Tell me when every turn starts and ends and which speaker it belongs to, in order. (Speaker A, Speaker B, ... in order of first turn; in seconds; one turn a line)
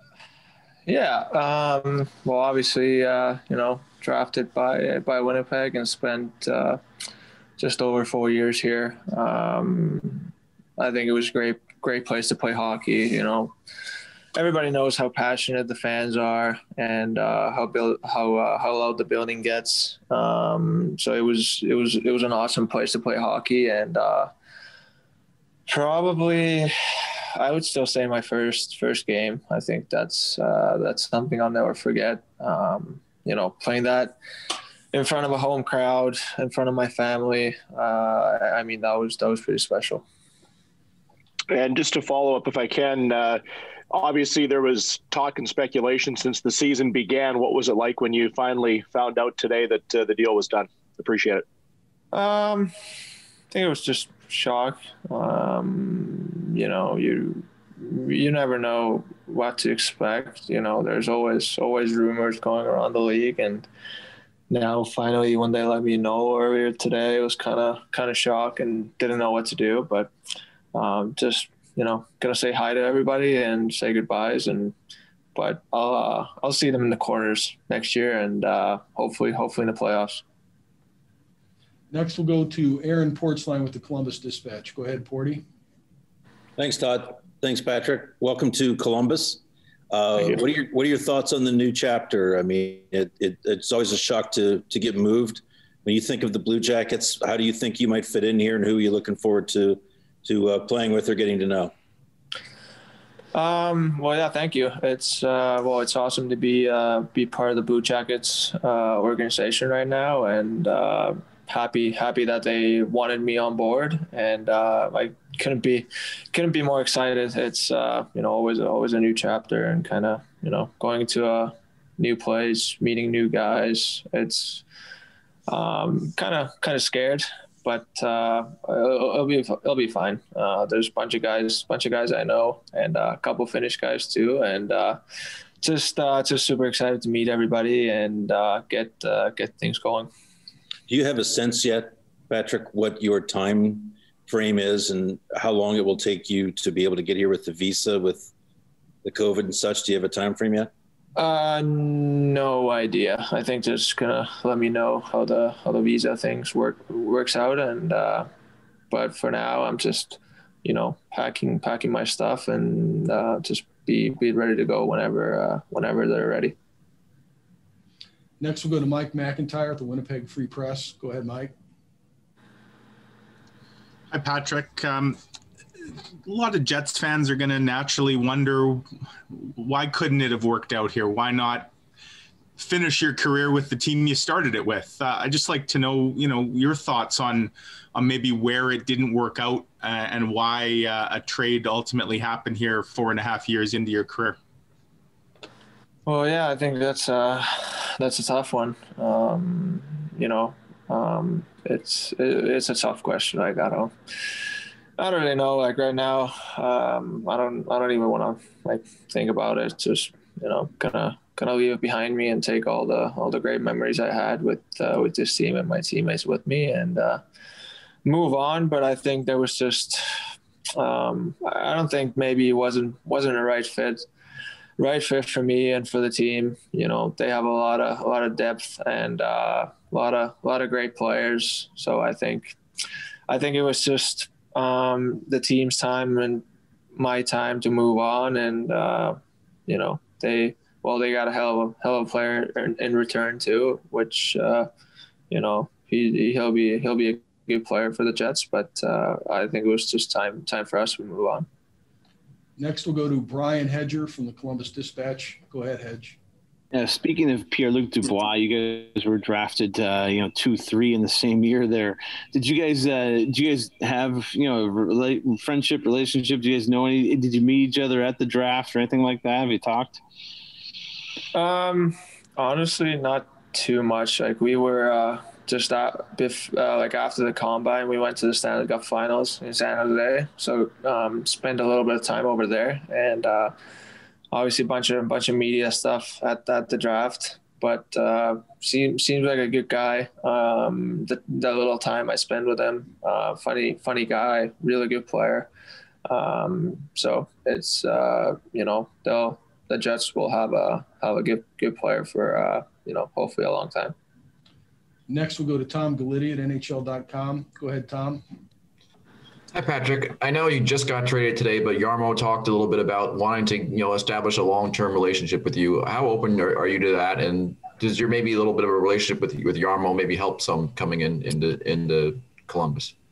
Speaker A: 0.8-6.8
Speaker A: 7.6-13.5
Speaker A: 14.3-24.3
Speaker A: 25.7-26.7
Speaker A: 27.4-34.1
Speaker A: 34.9-40.0
Speaker B: 41.5-51.4
Speaker A: 52.1-52.7
Speaker A: 53.5-63.7
Speaker A: 64.5-70.1
Speaker A: 70.7-74.7
Speaker A: 75.3-80.2
Speaker C: 81.9-85.4
Speaker D: 86.6-101.7
Speaker A: 103.3-124.6
Speaker A: 125.5-135.0
Speaker A: 135.6-140.1
Speaker D: 140.9-148.3
Speaker D: 149.0-150.7
Speaker A: 151.2-158.3
Speaker A: 158.9-166.5
Speaker C: 168.4-171.5
Speaker E: 174.1-175.2
Speaker E: 176.2-181.7
Speaker E: 182.6-194.4
Speaker A: 196.1-203.9
Speaker A: 205.0-217.2
Speaker A: 218.0-220.1
Speaker A: 220.8-224.1
Speaker A: 224.8-232.6
Speaker A: 233.3-244.7
Speaker A: 245.3-251.5
Speaker C: 252.6-256.2
Speaker F: 256.7-270.0
Speaker A: 271.3-283.5
Speaker A: 284.3-295.5
Speaker A: 296.1-303.9
Speaker C: 305.1-308.2
Speaker G: 309.5-322.9